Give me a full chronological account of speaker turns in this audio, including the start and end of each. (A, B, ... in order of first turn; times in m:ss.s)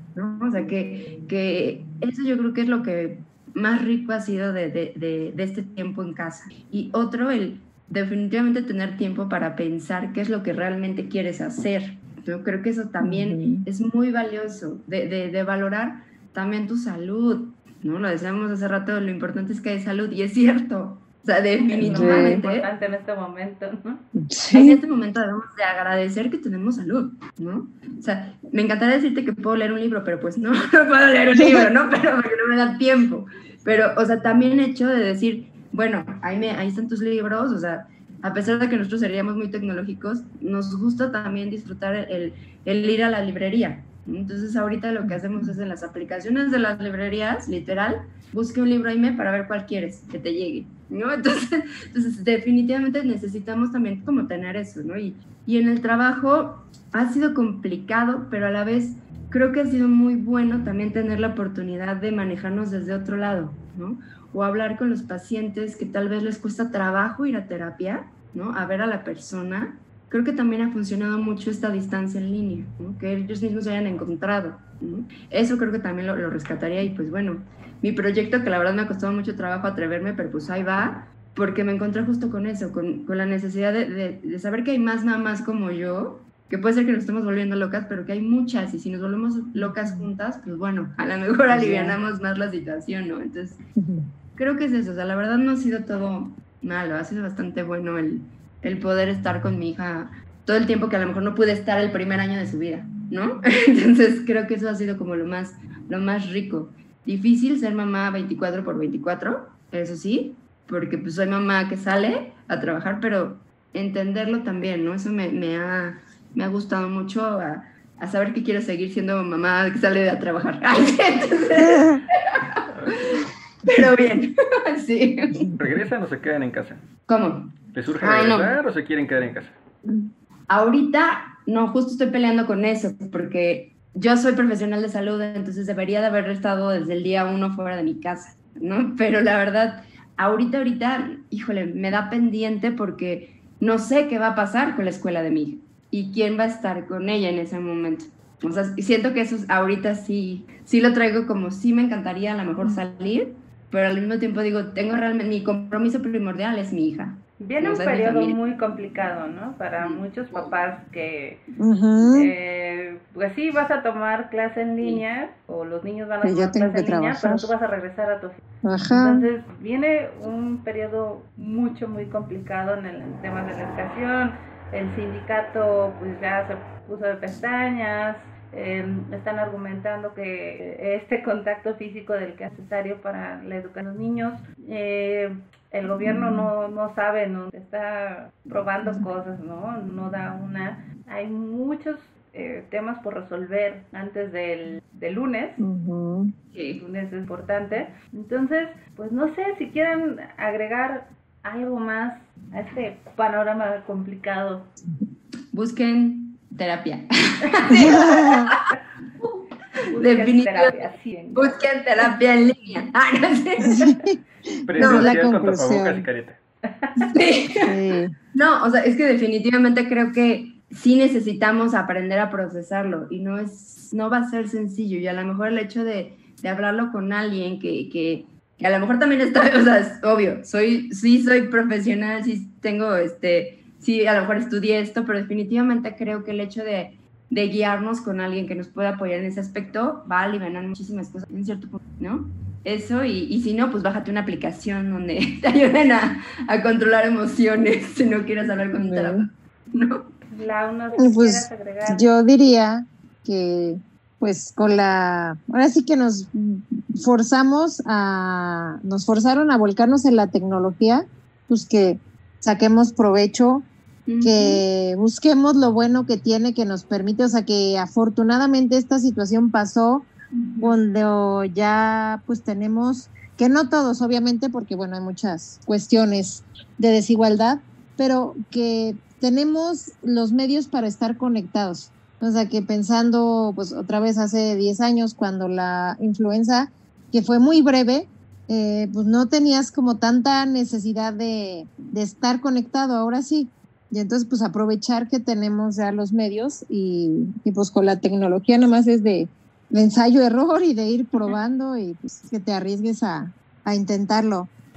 0:00.1-0:22.7 A
0:13.0-0:13.6 B
0:21.7-0:24.0 C
0:21.8-0:22.4 B
0:24.2-0:24.8 B
0:24.5-1:33.6 A
0:31.4-0:31.7 B
1:29.5-1:30.1 B
1:31.5-1:32.0 B
1:33.8-1:34.1 B
1:34.4-2:05.5 A
2:01.6-2:02.0 B
2:05.6-2:06.8 D
2:07.1-2:08.6 A
2:07.7-2:09.6 D
2:10.5-2:38.4 A
2:37.4-2:41.5 C
2:39.8-2:40.5 A
2:41.6-2:42.3 B
2:42.1-3:15.6 C
2:46.2-2:47.5 B
2:48.6-2:49.3 B
3:06.0-3:06.5 B
3:15.6-3:16.3 B
3:16.5-3:16.8 A
3:16.7-3:24.7 C
3:25.5-3:28.6 A
3:27.7-3:28.5 B
3:27.8-3:28.2 C
3:29.9-3:31.6 C
3:30.0-3:33.8 A
3:33.7-3:34.2 B
3:34.6-3:36.4 D
3:34.7-3:36.0 B
3:34.8-3:35.2 A
3:36.6-3:37.1 C
3:37.0-3:37.7 A
3:37.6-3:38.2 B
3:38.3-4:10.1 A
4:08.8-4:09.3 B
4:10.3-4:12.1 C
4:11.0-4:23.7 B
4:24.1-4:24.6 A
4:24.2-4:30.1 B
4:30.4-4:30.8 A
4:30.6-5:04.5 B